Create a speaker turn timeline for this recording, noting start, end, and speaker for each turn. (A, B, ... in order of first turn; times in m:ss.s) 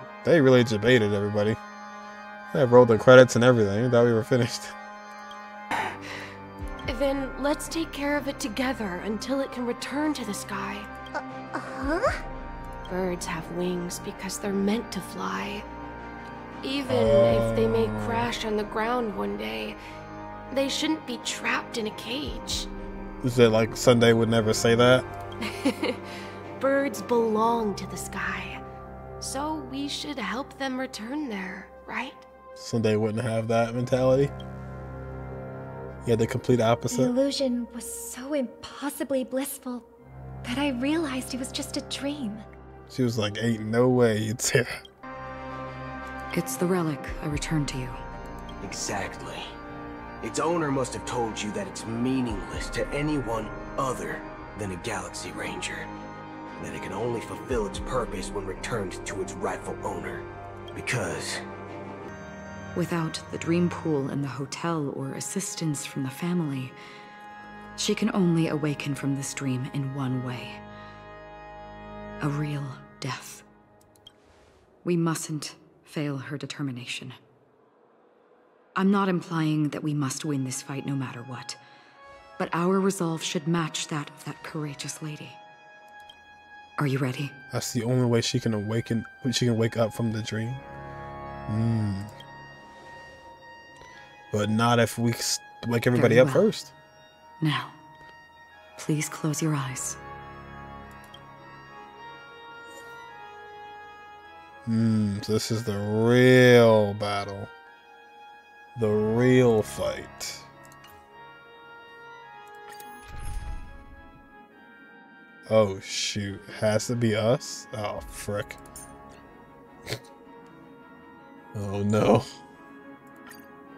0:00.2-0:01.6 A
0:02.5-0:04.7 A
0:06.9-0:10.9 B
0:11.1-0:12.2 C
0:12.8-0:15.6 B
0:16.6-0:19.8 B
0:16.9-0:18.3 A
0:20.5-0:22.7 B
0:23.2-0:25.1 A
0:25.4-0:26.1 B
0:26.6-0:28.6 B
0:29.2-0:32.2 B
0:32.6-0:34.3 A
0:36.0-0:37.1 A
0:36.9-0:39.8 C
0:40.4-0:42.4 C
0:42.9-0:44.8 A
0:46.3-0:48.0 D
0:48.6-0:49.5 E
0:50.2-0:55.9 E
0:56.6-1:01.4 E
1:02.7-1:06.8 D
1:07.8-1:10.6 D
1:12.2-1:13.4 D
1:14.8-1:17.2 D
1:18.7-1:21.6 D
1:22.4-1:25.4 D
1:26.8-1:27.3 D
1:27.5-1:30.6 A
1:31.5-1:32.1 A
1:34.3-1:36.7 A
1:35.9-1:36.5 D
1:37.4-1:37.8 D
1:38.8-1:40.0 D
1:44.6-1:47.5 A
1:48.7-1:50.5 A
1:55.5-1:58.6 A
2:01.5-2:02.2 A